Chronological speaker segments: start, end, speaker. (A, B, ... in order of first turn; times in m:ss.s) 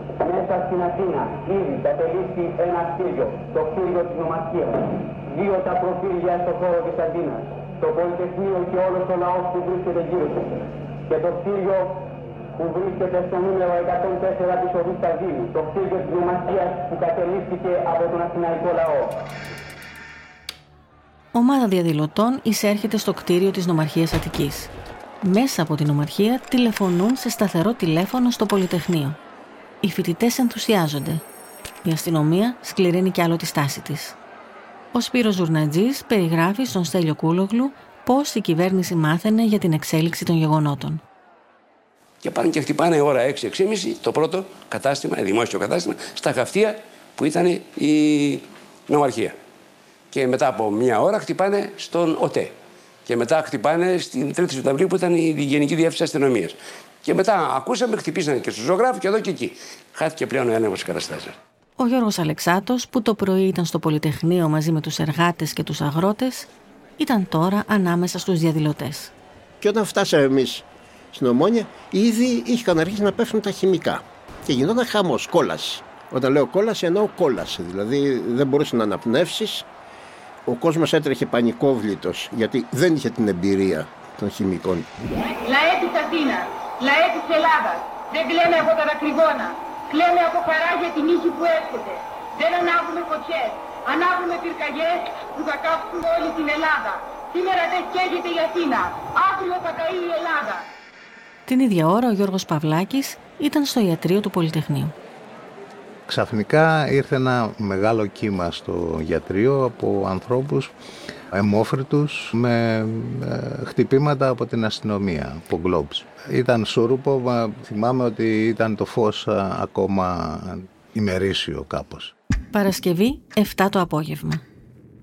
0:00.2-0:19.2 A
0:21.3-0:24.7 B
0:25.2-0:29.2 B
0:29.8-0:31.2 B
0:31.8-0:34.2 B
0:34.9-0:41.0 B
0:42.2-0:49.4 C
0:50.1-0:52.5 C
0:53.1-1:01.4 C
1:01.8-1:09.1 B
1:09.6-1:19.6 D
1:20.5-1:24.9 D
1:25.4-1:40.7 E
1:41.5-1:44.9 B
1:46.1-1:50.7 F
1:51.3-2:02.1 F
2:02.5-2:04.4 B